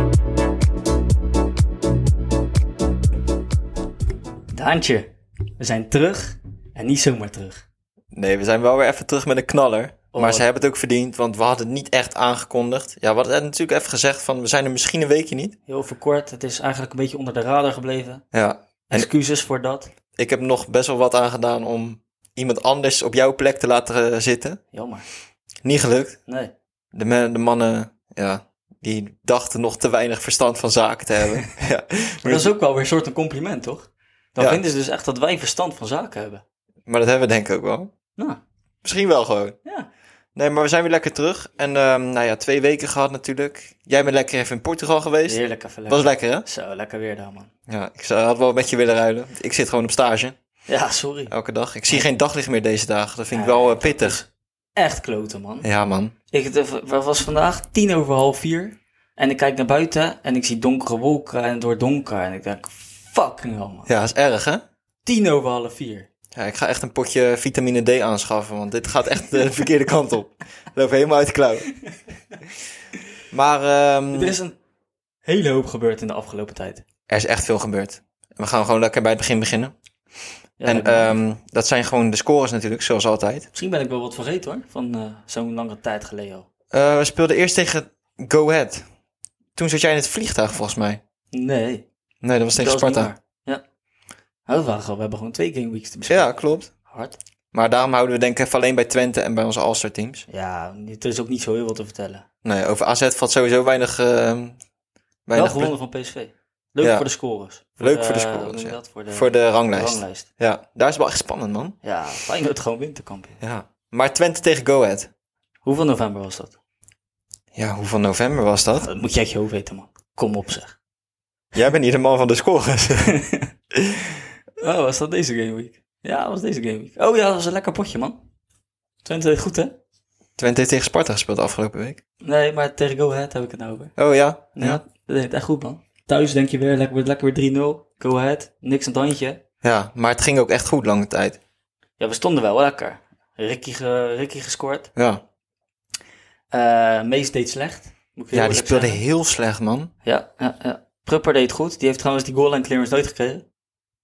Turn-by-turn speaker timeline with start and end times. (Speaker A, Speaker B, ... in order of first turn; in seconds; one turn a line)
Speaker A: 4.5-7.7
Speaker B: 8.1-15.6
Speaker A: 10.1-10.4
Speaker A: 15.7-18.2
Speaker B: 18.3-19.1
Speaker A: 18.9-19.9
Speaker B: 20.2-24.6
Speaker A: 24.7-25.1
Speaker B: 25.6-26.2
Speaker A: 26.3-26.5
Speaker B: 26.9-32.5
Speaker A: 32.2-36.4
Speaker B: 36.9-37.9
Speaker B: 38.8-39.6
Speaker B: 40.4-46.5
Speaker A: 45.3-47.5
Speaker B: 47.7-50.4
Speaker A: 50.7-51.3
Speaker B: 51.3-54.2
Speaker A: 53.3-55.7
Speaker B: 55.6-56.1
Speaker A: 56.3-63.9
Speaker B: 63.9-64.6
Speaker A: 65.0-66.1
Speaker B: 66.3-71.7
Speaker B: 73.3-74.3
Speaker A: 74.1-74.6
Speaker A: 75.2-76.8
Speaker B: 77.1-79.7
Speaker A: 80.6-81.2
Speaker B: 80.7-83.5
Speaker A: 83.5-86.5
Speaker B: 86.7-88.8
Speaker B: 89.6-91.0
Speaker A: 91.3-91.9
Speaker B: 92.2-93.1
Speaker A: 92.6-93.6
Speaker A: 94.5-96.3
Speaker B: 96.1-96.7
Speaker A: 96.9-97.2
Speaker B: 97.5-100.2
Speaker A: 100.3-102.2
Speaker B: 102.4-104.6
Speaker B: 105.3-105.7
Speaker A: 105.3-110.3
Speaker B: 106.8-107.1
Speaker B: 107.8-111.8
Speaker A: 111.8-113.4
Speaker B: 113.4-115.1
Speaker A: 115.6-116.6
Speaker B: 117.5-118.9
Speaker A: 118.8-120.8
Speaker B: 121.5-123.2
Speaker A: 123.0-123.5
Speaker B: 123.8-124.1
Speaker A: 124.6-128.2
Speaker A: 129.1-129.8
Speaker B: 130.4-132.0
Speaker A: 132.2-133.9
Speaker B: 134.0-134.8
Speaker A: 134.6-139.4
Speaker B: 139.6-141.4
Speaker A: 142.0-144.9
Speaker B: 145.0-145.2
Speaker A: 146.5-149.0
Speaker B: 148.3-149.9
Speaker A: 150.0-153.4